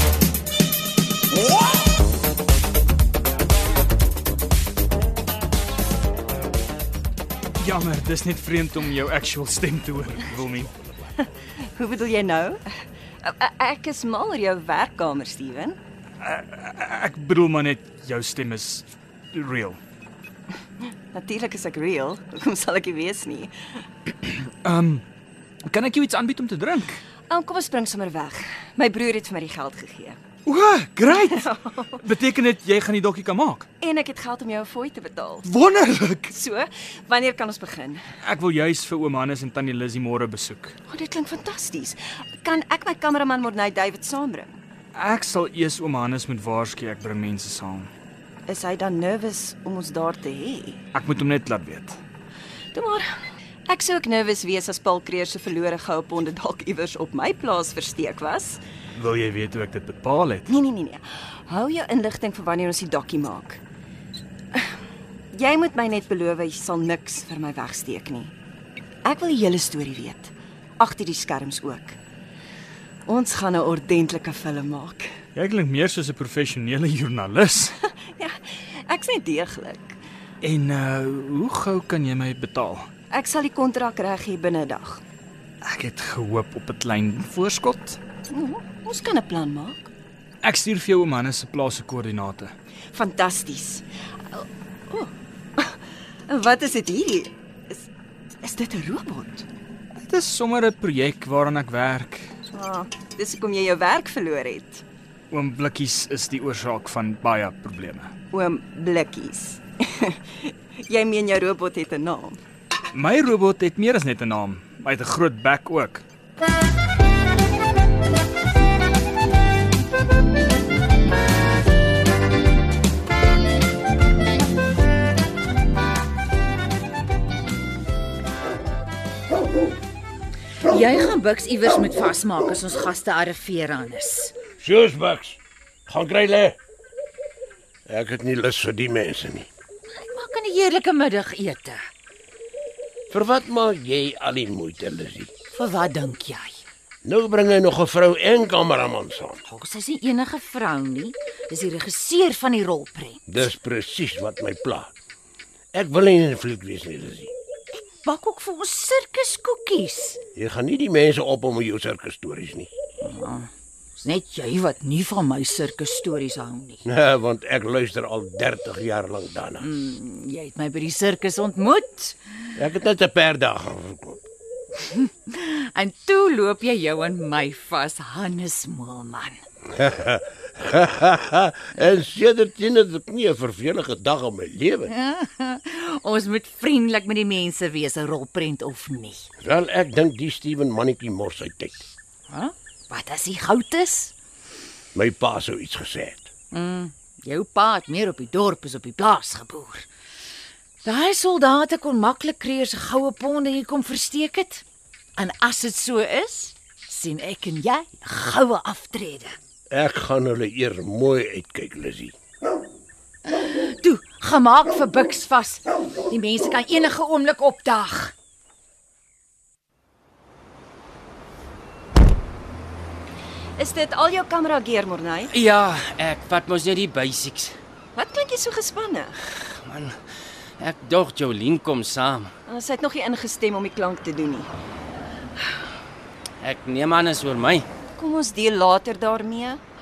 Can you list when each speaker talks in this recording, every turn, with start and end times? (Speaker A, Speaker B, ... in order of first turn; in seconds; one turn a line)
Speaker A: 7.6-10.8
Speaker B: 11.2-12.6
Speaker B: 13.2-15.8
Speaker A: 16.2-19.8
Speaker B: 21.1-23.8
Speaker A: 24.2-25.0
Speaker A: 25.6-27.0
Speaker B: 27.3-30.2
Speaker A: 30.4-31.4
Speaker B: 31.1-32.0
Speaker A: 32.0-33.7
Speaker B: 33.8-35.5
Speaker A: 35.4-36.3
Speaker B: 36.3-38.0
Speaker A: 38.2-40.8
Speaker B: 40.9-44.6
Speaker A: 44.9-47.9
Speaker B: 48.5-50.8
Speaker A: 50.9-52.0
Speaker B: 52.7-53.1
Speaker B: 53.7-58.6
Speaker A: 58.9-60.5
Speaker B: 60.5-63.6
Speaker B: 65.3-68.3
Speaker B: 69.0-72.0
Speaker B: 73.0-75.1
Speaker A: 75.3-77.8
Speaker B: 77.8-80.0
Speaker A: 80.4-82.9
Speaker B: 83.1-85.0
Speaker A: 85.6-88.0
Speaker B: 88.3-89.9
Speaker A: 90.4-92.5
Speaker B: 92.9-97.9
Speaker B: 98.4-99.5
Speaker A: 100.0-102.3
Speaker B: 102.5-104.8
Speaker A: 105.3-108.1
Speaker B: 108.3-112.4
Speaker A: 112.9-116.0
Speaker C: 130.7-134.3
Speaker D: 134.6-136.6
Speaker D: 137.9-139.5
Speaker C: 139.9-141.8
Speaker D: 143.1-145.3
Speaker C: 145.5-146.6
Speaker D: 147.0-149.4
Speaker C: 149.5-153.5
Speaker D: 153.3-154.9
Speaker D: 155.7-157.3
Speaker C: 157.8-160.2
Speaker D: 160.3-162.7
Speaker C: 163.0-166.8
Speaker D: 166.8-169.7
Speaker C: 169.6-172.2
Speaker D: 172.6-174.2
Speaker C: 174.8-179.4
Speaker D: 179.7-184.9
Speaker C: 184.9-189.3
Speaker D: 189.4-191.8
Speaker C: 192.3-194.1
Speaker D: 194.9-196.3
Speaker C: 196.5-199.8
Speaker C: 200.8-204.6
Speaker C: 205.2-209.4
Speaker D: 209.7-212.1
Speaker C: 213.3-218.1
Speaker B: 223.6-225.3
Speaker E: 225.3-227.6
Speaker B: 227.9-229.2
Speaker E: 229.3-230.0
Speaker E: 230.6-232.3
Speaker B: 232.5-234.5
Speaker E: 236.4-237.7
Speaker B: 238.0-239.6